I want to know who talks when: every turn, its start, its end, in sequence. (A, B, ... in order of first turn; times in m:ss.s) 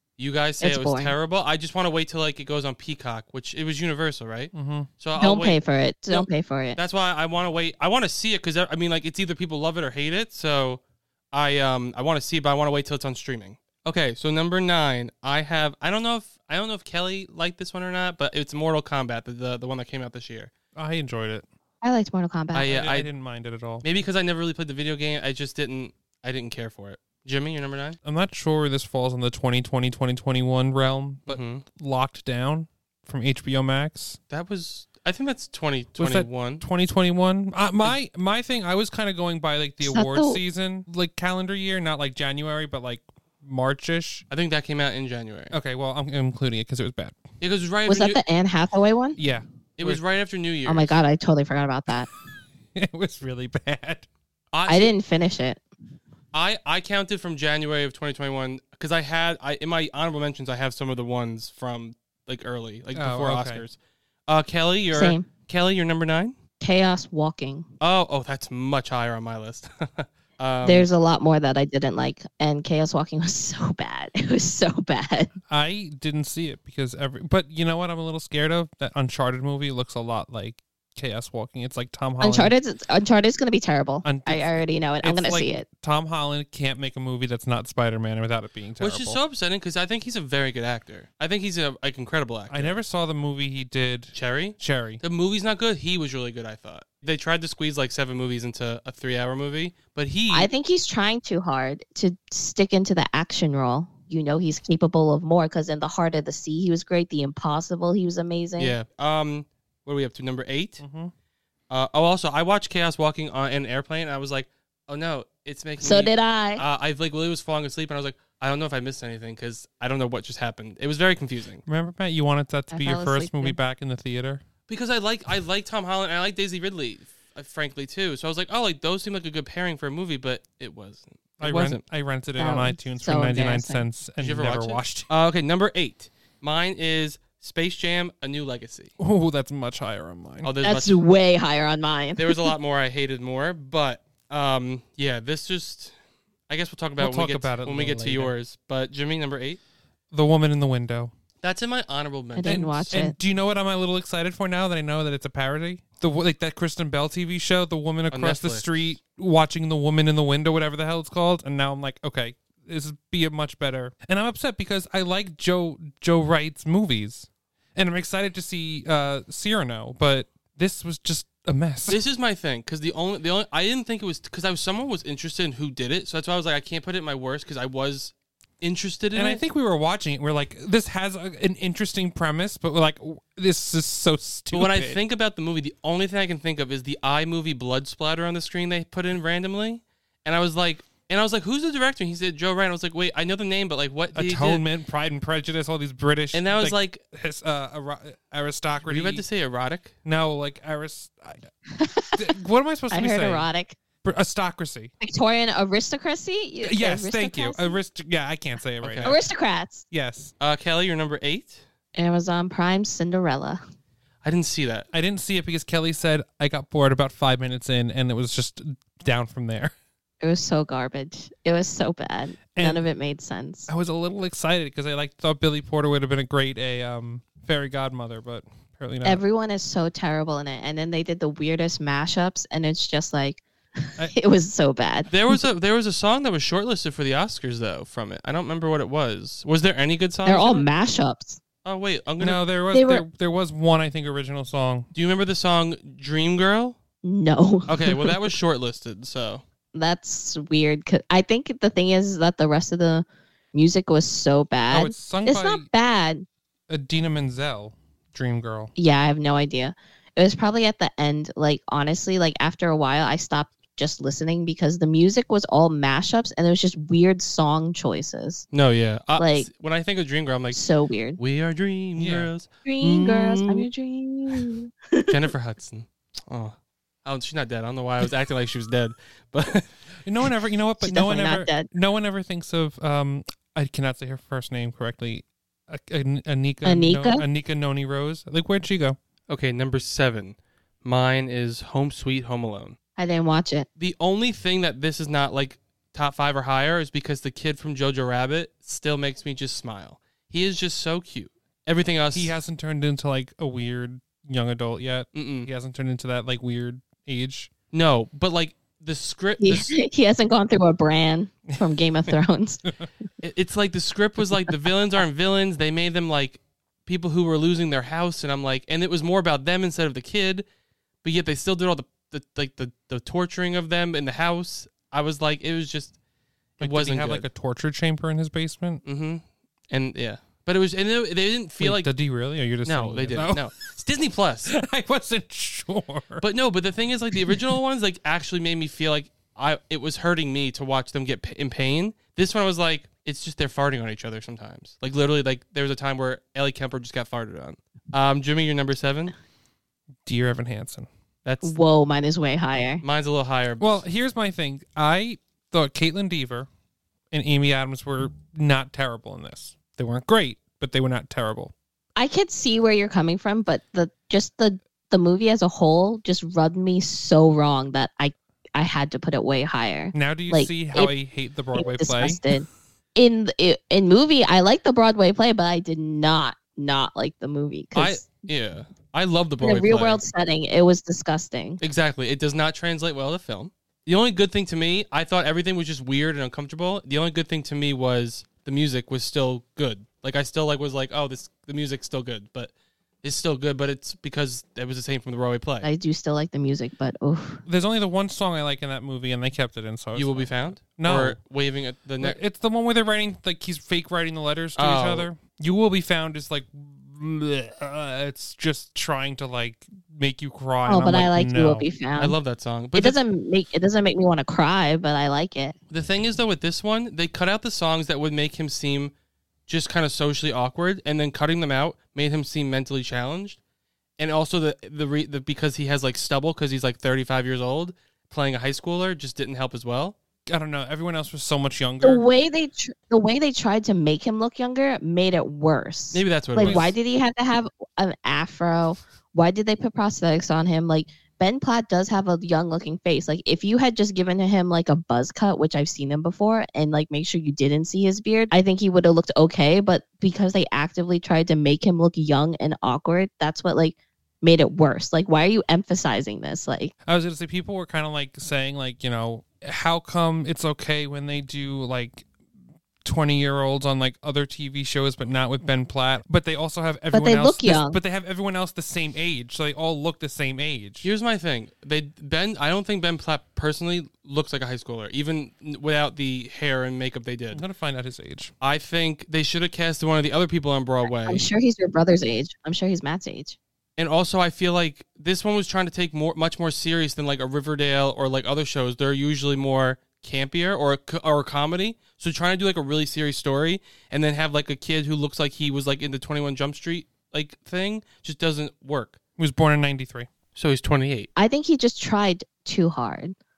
0:00.2-0:05.6 A
0:00.6-0:01.1 B
0:04.5-0:04.9 C
0:05.2-0:06.8 B
0:06.1-0:10.8 A
0:11.3-0:20.5 A
0:20.8-0:21.4 C
0:21.8-0:22.7 B
0:22.5-0:23.1 A
0:22.6-0:23.8 C
0:23.8-0:28.0 A
0:28.0-0:34.2 C
0:31.3-0:31.6 A
0:34.3-0:36.6 A
0:36.0-0:44.2 C
0:39.8-0:40.4 B
0:44.3-0:45.5 A
0:45.5-0:47.2 C
0:47.4-0:48.2 A
0:47.9-0:49.2 B
0:49.2-0:50.0 C
0:49.8-0:51.0 A
0:50.6-0:52.1 B
0:52.7-0:54.1 C
0:54.5-0:54.9 A
0:54.7-0:55.6 B
0:56.3-1:03.8 A
1:02.9-1:03.6 C
1:04.3-1:06.3 A
1:04.9-1:05.3 B
1:06.6-1:07.6 B
1:07.8-1:10.9 A
1:10.6-1:15.3 B
1:15.5-1:22.5 C
1:22.2-1:25.6 B
1:24.0-1:29.2 C
1:28.8-1:32.7 A
1:32.5-1:35.0 C
1:34.1-1:40.5 A
1:40.3-1:48.8 B
1:48.6-1:50.8 A
1:50.8-1:51.1 C
1:51.7-2:01.6 A
1:55.8-1:56.6 B
2:01.6-2:04.4 C
2:02.7-2:03.6 B
2:04.7-2:11.8 A
2:11.4-2:15.1 C
2:12.4-2:13.8 B
2:14.2-2:18.9 A
2:19.0-2:20.5 C
2:20.4-2:20.9 A
2:20.6-2:22.5 B
2:22.2-2:25.9 A
2:26.5-2:29.6 A
2:27.0-2:28.3 C
2:30.1-2:31.1 C
2:31.4-2:32.9 A
2:32.3-2:33.1 B
2:32.4-2:52.0 C
2:38.1-2:38.7 A
2:51.9-2:59.4 A
2:59.1-3:05.0 C
3:04.5-3:14.6 A
3:14.1-3:19.2 C
3:16.3-3:17.0 A
3:18.8-3:19.9 A
3:20.0-3:21.4 C
3:21.7-3:22.3 B
3:22.2-3:23.5 C
3:22.9-3:23.8 B
3:24.0-3:24.9 C
3:25.0-3:27.8 B
3:26.6-3:29.2 C
3:28.8-3:29.1 A
3:29.0-3:29.8 B
3:29.9-3:30.3 C
3:30.4-3:31.6 A
3:31.9-3:33.6 B
3:34.2-3:34.9 A
3:34.9-3:39.7 C
3:40.2-3:43.7 B
3:42.6-3:42.8 C
3:43.7-3:49.2 C
3:49.0-3:55.4 B
3:55.1-4:00.6 A
4:00.2-4:01.4 B
4:01.6-4:02.4 A
4:02.2-4:04.9 C
4:02.7-4:03.0 B
4:04.9-4:06.8 A
4:07.0-4:08.3 B
4:07.7-4:09.4 A
4:09.7-4:16.2 B
4:14.7-4:15.7 C
4:16.7-4:18.7 C
4:18.8-4:28.4 B
4:28.5-4:30.6 A
4:29.2-4:29.5 B
4:30.5-4:31.2 B
4:31.2-4:33.7 A
4:32.0-4:32.3 C
4:32.6-4:35.1 B
4:35.1-4:39.7 A
4:40.0-4:49.0 C
4:40.8-4:41.7 B
4:46.6-4:47.2 B
4:49.3-4:52.8 A
4:53.0-4:53.7 B
4:53.8-5:02.3 A
5:02.1-5:07.5 C
5:05.1-5:05.5 A
5:07.7-5:09.7 A
5:09.4-5:12.6 B
5:13.2-5:20.4 A
5:21.0-5:25.9 A
5:26.6-5:27.2 A
5:26.6-5:28.8 C
5:28.8-5:31.9 A
5:31.6-5:33.5 C
5:32.6-5:34.5 A
5:34.4-5:36.2 C
5:36.2-5:49.1 A
5:50.0-5:50.9 C
5:51.2-5:51.5 A
5:51.4-5:52.8 B
5:52.8-5:53.8 A
5:53.6-5:56.5 C
5:57.1-6:01.5 C
6:02.0-6:10.9 B
6:09.9-6:12.2 C
6:11.5-6:18.1 B
6:17.7-6:20.0 A
6:19.4-6:21.6 B
6:21.6-6:32.5 A
6:33.0-6:35.7 A
6:35.6-6:37.4 B
6:37.4-6:41.2 C
6:39.9-6:42.2 A
6:42.0-6:51.6 C
6:44.6-6:45.1 A
6:50.7-6:52.2 B
6:52.0-6:53.0 A
6:52.7-6:55.6 B
6:55.7-6:58.9 A
6:59.5-7:03.4 A
7:04.0-7:10.0 A
7:10.3-7:12.0 C
7:11.8-7:36.7 B
7:15.9-7:16.7 A
7:16.4-7:16.7 C
7:36.8-7:42.0 C
7:42.8-7:50.9 C
7:46.9-7:47.8 B
7:50.8-7:57.4 A
7:57.3-7:58.3 C
7:58.4-8:01.2 A
8:01.0-8:03.4 B
8:03.8-8:19.0 A
8:19.2-8:20.1 C
8:20.4-8:21.1 A
8:21.2-8:23.1 B